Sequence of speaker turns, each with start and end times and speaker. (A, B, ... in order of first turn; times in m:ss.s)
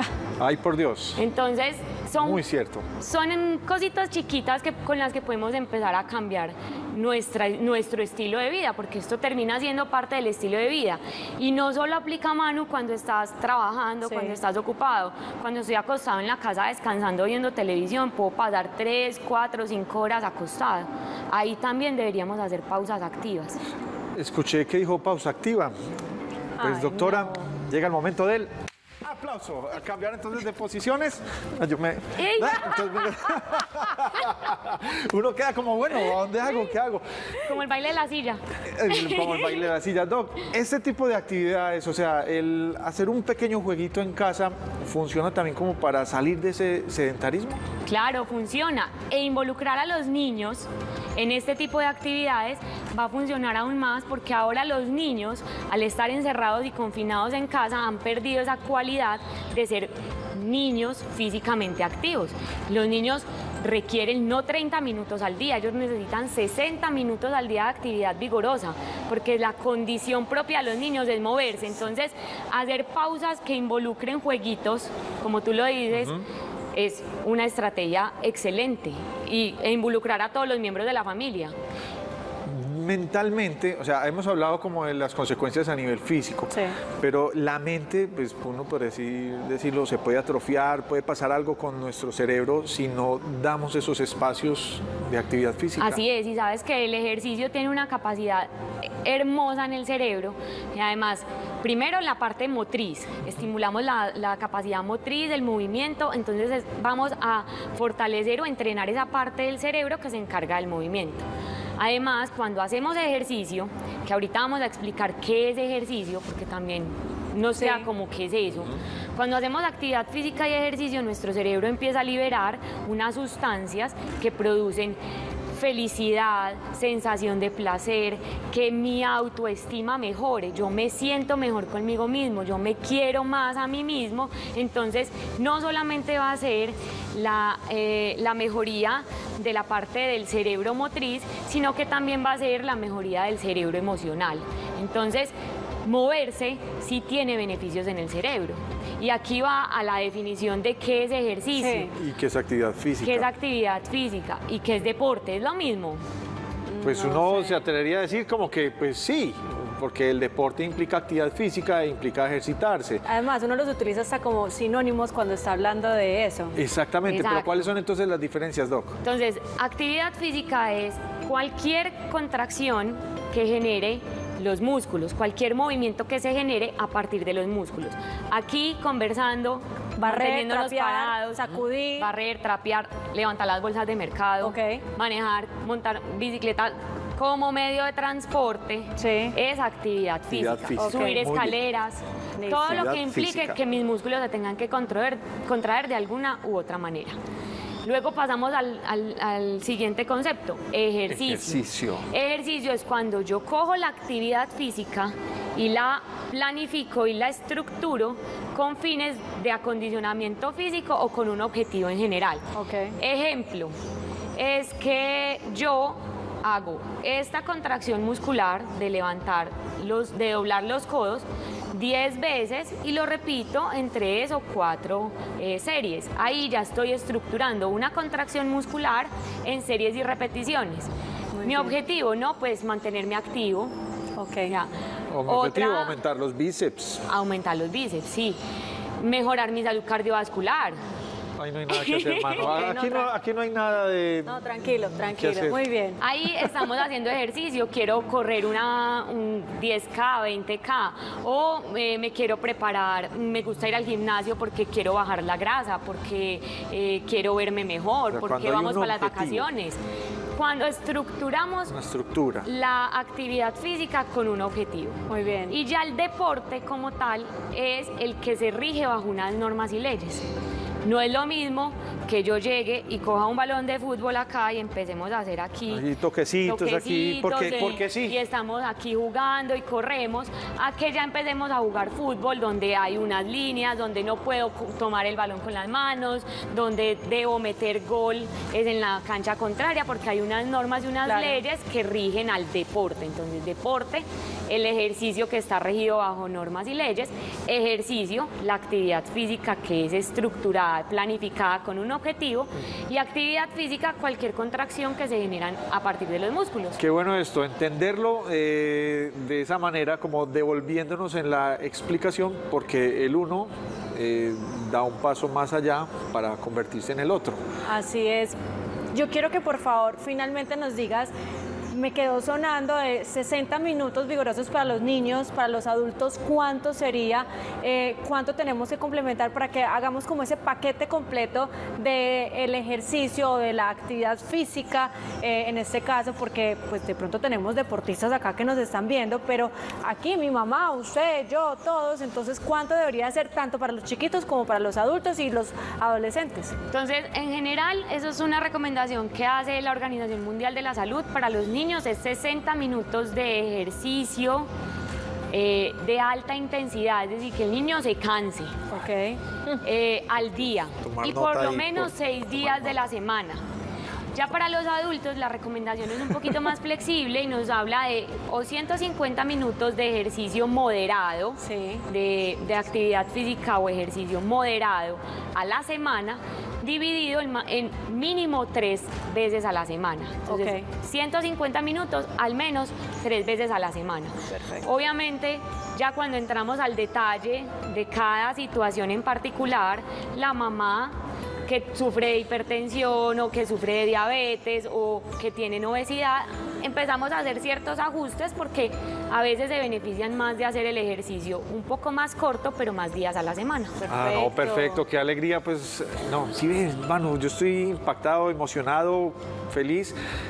0:00.4-0:01.2 A
0:01.2-0:02.4 B
0:02.2-0:02.9 A
0:03.0-0:23.6 B
0:14.0-0:14.4 C
0:24.2-0:25.7 A
0:26.6-0:27.4 C
0:26.6-0:28.5 A
0:29.0-0:37.0 A
0:32.2-0:33.4 B
0:37.4-0:39.7 B
0:38.7-0:47.6 A
0:47.8-1:16.2 B
1:15.9-1:16.2 A
1:16.7-1:21.6 B
1:22.5-1:36.0 A
1:26.5-1:26.8 C
1:35.8-1:51.2 B
1:51.8-2:05.0 B
1:57.6-1:57.9 C
2:05.5-2:31.9 B
2:31.6-2:31.9 C
2:32.0-2:33.3 A
2:33.0-2:36.0 B
2:36.7-2:37.6 C
2:36.8-2:43.0 A
2:43.0-2:46.6 C
2:46.6-2:49.0 A
2:47.1-2:47.7 B
2:49.0-3:17.2 B
3:00.0-3:02.1 C
3:04.4-3:04.8 C
3:09.0-3:09.3 C
3:10.3-3:11.6 A
3:10.8-3:11.2 C
3:12.4-3:12.8 C
3:12.5-3:13.6 A
3:17.8-3:32.4 B
3:21.1-3:22.1 A
3:32.6-3:33.0 C
3:33.0-3:33.7 B
3:34.4-3:50.9 B
3:51.3-3:51.8 C
3:51.4-3:53.7 B
3:54.2-3:54.6 C
3:55.1-3:57.0 A
3:55.3-3:56.0 B
3:57.1-3:58.4 B
3:59.0-4:00.8 B
4:01.4-4:04.4 A
4:01.7-4:03.0 B
4:02.4-4:03.1 C
4:04.3-4:06.0 C
4:05.0-4:05.6 A
4:06.0-4:19.8 B
4:18.1-4:19.5 A
4:20.3-4:21.7 B
4:21.7-4:22.5 A
4:22.4-4:30.3 B
4:25.1-4:25.6 C
4:30.8-4:35.9 B
4:35.7-4:38.2 A
4:36.4-5:06.8 B
4:51.0-4:51.4 C
5:06.8-5:17.4 A
5:17.7-5:18.4 C
5:18.9-5:21.1 C
5:21.7-5:46.5 C
5:46.7-5:54.5 B
5:55.3-5:58.6 B
5:58.7-5:59.6 C
5:59.6-6:03.4 B
6:00.2-6:02.9 A
6:04.1-6:43.8 B
6:11.4-6:11.8 C
6:20.3-6:20.6 C
6:43.9-6:50.0 A
6:44.0-6:44.6 C